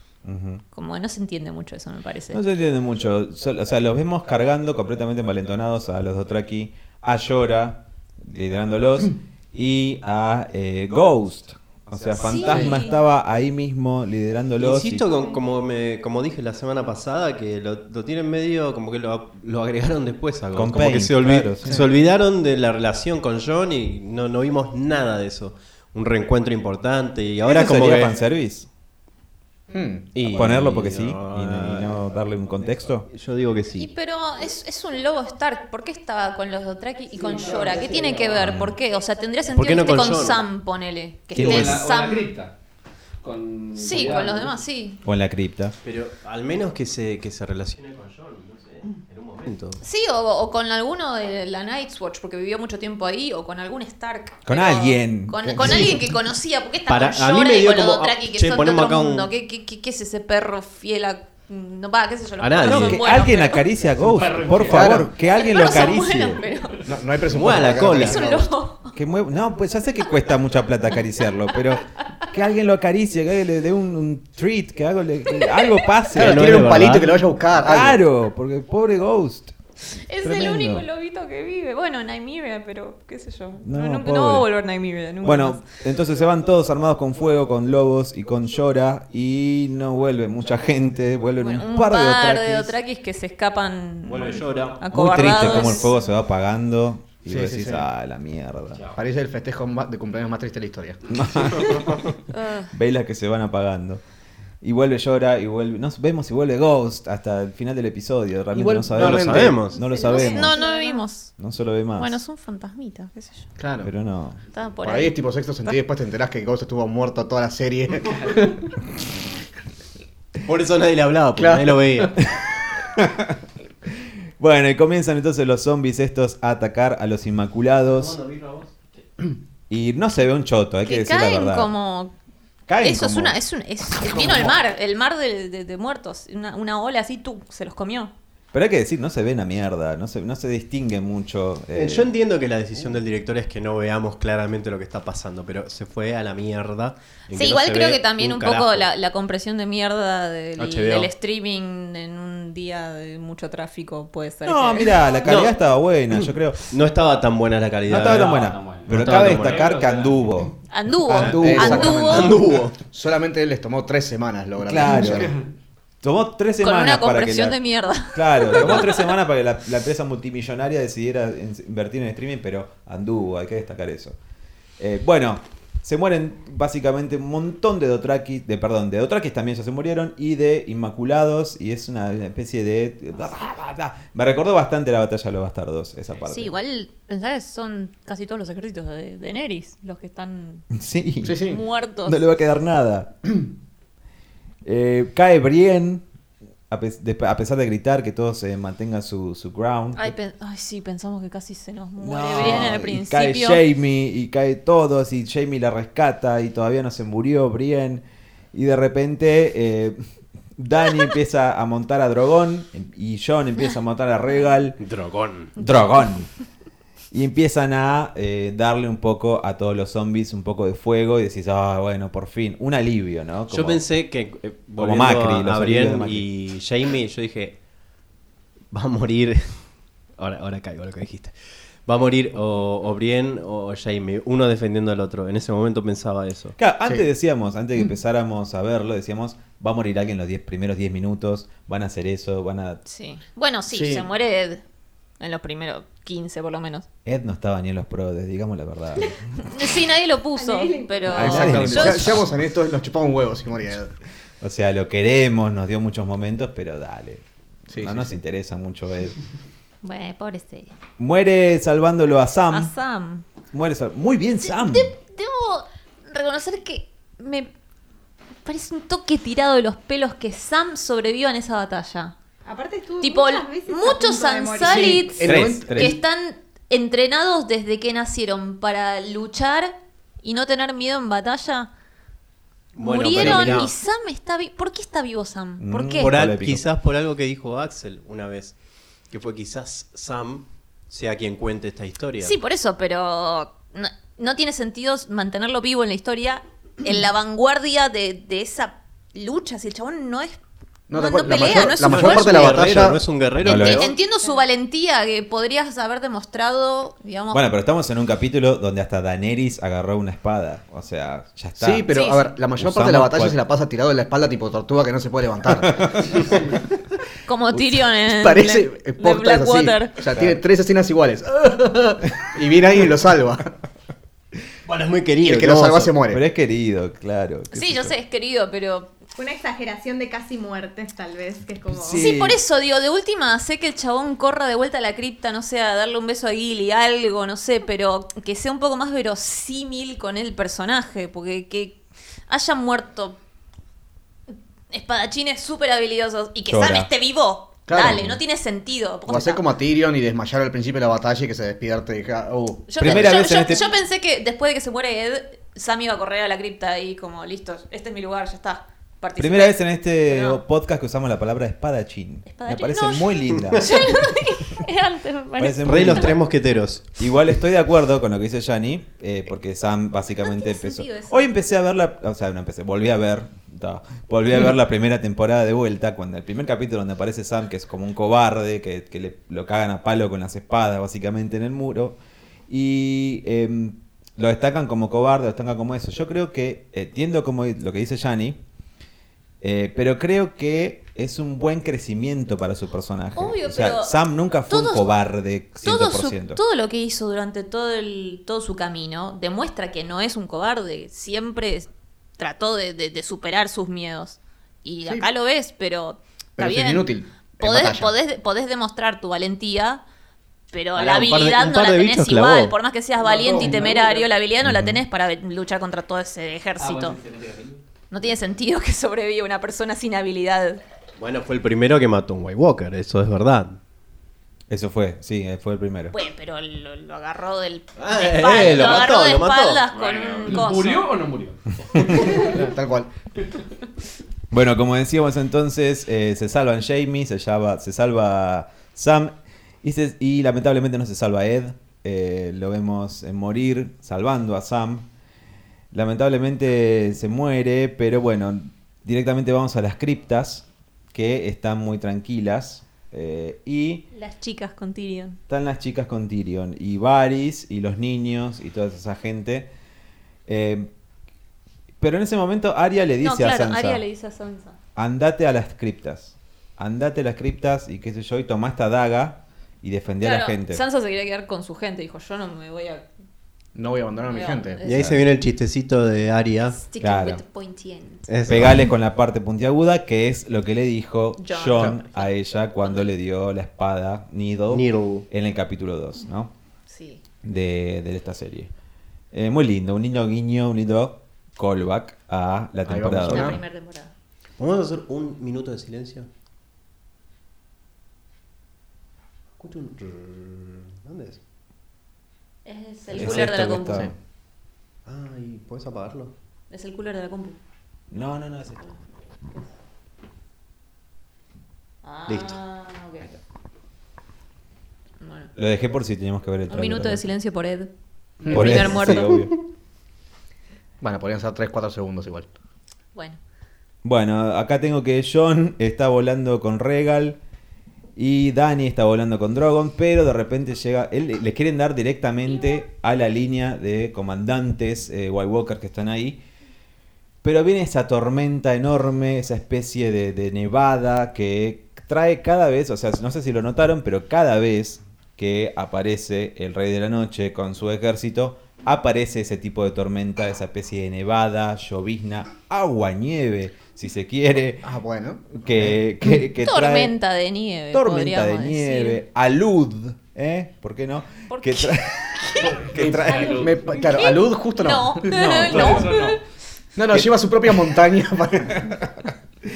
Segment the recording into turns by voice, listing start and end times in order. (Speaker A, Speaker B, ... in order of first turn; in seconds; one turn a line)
Speaker A: 0.2-0.6
Speaker B: 0.7-2.4
Speaker A: 2.3-15.1
Speaker B: 12.2-13.0
Speaker C: 14.6-28.2
Speaker A: 20.5-21.8
Speaker A: 27.4-28.7
Speaker D: 29.7-30.1
Speaker C: 30.1-32.0
Speaker A: 30.3-33.1
Speaker C: 33.1-33.9
Speaker B: 33.8-42.4
Speaker E: 37.3-38.4
Speaker A: 38.4-38.8
Speaker C: 39.5-40.5
Speaker A: 41.3-41.8
Speaker E: 41.3-42.5
Speaker E: 43.2-44.5
Speaker B: 43.8-45.0
Speaker A: 45.0-45.8
Speaker C: 45.8-49.8
Speaker B: 49.8-63.6
Speaker A: 54.5-55.9
Speaker D: 55.6-55.9
Speaker C: 56.9-59.3
Speaker C: 62.4-63.0
Speaker A: 62.6-66.4
Speaker E: 64.0-65.0
Speaker D: 64.6-65.1
Speaker B: 65.3-66.9
Speaker D: 66.9-68.5
Speaker C: 67.3-68.3
Speaker B: 67.9-68.9
Speaker A: 68.9-77.0
Speaker B: 75.4-75.7
Speaker C: 76.1-77.2
Speaker D: 76.1-78.0
Speaker A: 77.5-79.5
Speaker B: 79.9-85.6
Speaker A: 80.2-80.9
Speaker A: 83.6-84.5
Speaker A: 85.2-92.8
Speaker B: 91.4-95.9
Speaker C: 94.1-94.8
Speaker A: 94.9-98.8
Speaker D: 97.3-97.9
Speaker D: 98.9-101.6
Speaker A: 101.1-102.1
Speaker B: 102.3-102.7
Speaker A: 102.7-104.0
Speaker A: 104.6-110.6
Speaker D: 108.5-109.6
Speaker C: 108.9-109.8
Speaker F: 109.8-111.0
Speaker B: 109.9-111.3
Speaker A: 111.3-112.2
Speaker B: 112.0-113.5
Speaker D: 113.6-113.9
Speaker A: 113.8-114.4
Speaker B: 114.5-115.2
Speaker D: 114.8-118.7
Speaker C: 120.5-122.1
Speaker D: 121.4-122.1
Speaker A: 122.9-128.2
Speaker C: 127.9-128.8
Speaker A: 129.7-131.7
Speaker B: 130.8-132.1
Speaker A: 132.7-133.4
Speaker B: 132.8-138.1
Speaker A: 134.1-134.5
Speaker A: 138.5-142.1
Speaker C: 141.7-148.9
Speaker B: 147.3-155.1
Speaker C: 150.6-151.1
Speaker A: 154.4-156.6
Speaker C: 155.2-155.6
Speaker C: 156.1-159.7
Speaker A: 157.9-160.6
Speaker E: 158.0-160.2
Speaker B: 160.7-162.4
Speaker A: 161.1-162.1
Speaker C: 161.1-162.7
Speaker D: 161.2-165.3
Speaker A: 164.6-165.3
Speaker A: 166.0-174.2
Speaker B: 166.6-169.1
Speaker A: 174.8-186.5
Speaker B: 186.2-190.7
Speaker A: 190.7-191.4
Speaker D: 191.2-191.6
Speaker B: 191.4-192.2
Speaker A: 192.0-193.1
Speaker A: 194.6-196.0
Speaker A: 196.7-200.1
Speaker B: 200.0-203.6
Speaker A: 202.0-210.0
Speaker A: 210.6-214.8
Speaker C: 214.8-215.5
Speaker A: 215.6-216.3
Speaker A: 217.1-223.8
Speaker C: 223.5-227.6
Speaker A: 224.8-226.3
Speaker C: 228.7-231.3
Speaker C: 231.9-236.6
Speaker A: 236.6-242.8
Speaker B: 242.9-244.6
Speaker D: 243.7-244.1
Speaker B: 245.2-246.9
Speaker A: 247.1-249.4
Speaker B: 249.4-252.2
Speaker F: 250.4-251.4
Speaker A: 251.1-252.2
Speaker D: 251.1-253.9
Speaker A: 254.4-259.2
Speaker D: 257.7-258.1
Speaker B: 259.8-260.7
Speaker A: 261.0-262.7
Speaker B: 262.5-263.3
Speaker A: 263.5-264.9
Speaker B: 264.4-267.5
Speaker B: 268.4-272.1
Speaker F: 272.4-275.2
Speaker B: 273.0-281.7
Speaker D: 274.6-275.9
Speaker A: 275.2-276.0
Speaker C: 282.7-283.7
Speaker B: 282.8-286.1
Speaker D: 283.2-283.4
Speaker A: 285.6-286.6
Speaker C: 286.0-288.6
Speaker C: 289.1-292.3
Speaker B: 292.2-300.4
Speaker D: 300.9-303.0
Speaker B: 300.9-302.7
Speaker C: 301.5-303.9
Speaker A: 303.4-303.9
Speaker B: 303.4-307.4
Speaker A: 307.3-311.9
Speaker D: 311.6-316.6
Speaker B: 311.9-312.3
Speaker A: 312.6-313.4
Speaker A: 315.6-316.1
Speaker B: 317.3-319.9
Speaker D: 318.1-323.5
Speaker A: 320.1-320.4
Speaker C: 324.6-325.9
Speaker D: 325.2-326.2
Speaker A: 326.1-327.9
Speaker B: 327.5-328.9
Speaker F: 329.2-332.1
Speaker A: 331.7-332.4
Speaker B: 331.9-343.2
Speaker B: 344.7-349.4
Speaker A: 346.5-346.9
Speaker D: 347.7-348.1
Speaker A: 347.8-348.2
Speaker D: 349.1-353.2
Speaker B: 352.7-360.4
Speaker A: 352.8-353.7
Speaker A: 359.2-364.1
Speaker B: 362.3-366.1
Speaker A: 365.4-366.2
Speaker C: 365.6-366.9
Speaker A: 367.0-382.0
Speaker B: 370.2-371.3
Speaker A: 382.5-388.4
Speaker A: 389.4-396.4
Speaker B: 393.1-393.9
Speaker B: 394.5-394.9
Speaker B: 395.6-409.8
Speaker D: 406.4-407.9
Speaker B: 410.5-417.0
Speaker C: 410.8-412.6
Speaker E: 413.0-414.1
Speaker A: 414.4-414.8
Speaker E: 416.6-417.6
Speaker B: 417.9-420.6
Speaker C: 421.0-423.6
Speaker A: 424.5-425.9
Speaker B: 425.9-430.9
Speaker C: 427.8-429.6
Speaker E: 429.7-432.4
Speaker D: 431.9-432.9
Speaker A: 434.3-444.9
Speaker A: 445.7-453.9
Speaker B: 453.9-455.2
Speaker A: 455.3-459.5
Speaker A: 460.3-460.7
Speaker A: 461.8-463.8
Speaker B: 463.0-464.6
Speaker A: 464.8-470.6
Speaker B: 470.0-472.9
Speaker D: 473.6-474.6
Speaker B: 474.1-474.9
Speaker C: 474.6-476.6
Speaker A: 474.7-475.0
Speaker B: 476.6-478.1
Speaker A: 476.8-477.2
Speaker C: 478.1-478.7
Speaker A: 478.3-486.3
Speaker B: 481.2-482.9
Speaker C: 484.5-485.1
Speaker B: 486.7-487.0
Speaker A: 487.2-488.5
Speaker A: 489.1-493.4
Speaker D: 492.7-493.4
Speaker B: 493.0-493.9
Speaker C: 494.4-496.1
Speaker C: 499.4-501.2
Speaker B: 502.4-503.9
Speaker A: 502.9-503.9
Speaker C: 504.9-506.1
Speaker B: 506.5-507.4
Speaker A: 507.9-508.6
Speaker B: 511.8-513.2
Speaker C: 512.1-512.4
Speaker B: 515.0-515.3
Speaker A: 515.4-517.0
Speaker B: 516.5-517.7
Speaker D: 518.2-518.9
Speaker B: 518.3-519.3
Speaker A: 518.3-519.3
Speaker D: 520.8-522.3
Speaker B: 522.9-523.2
Speaker A: 523.8-527.2
Speaker A: 528.0-536.2
Speaker A: 537.2-554.7
Speaker D: 554.6-555.7
Speaker A: 555.3-556.9
Speaker B: 556.4-559.0
Speaker A: 557.7-563.5
Speaker B: 561.3-566.2
Speaker E: 562.5-563.7
Speaker D: 563.1-565.9
Speaker E: 565.5-566.1
Speaker A: 565.5-566.0
Speaker D: 566.8-568.8
Speaker A: 568.5-569.1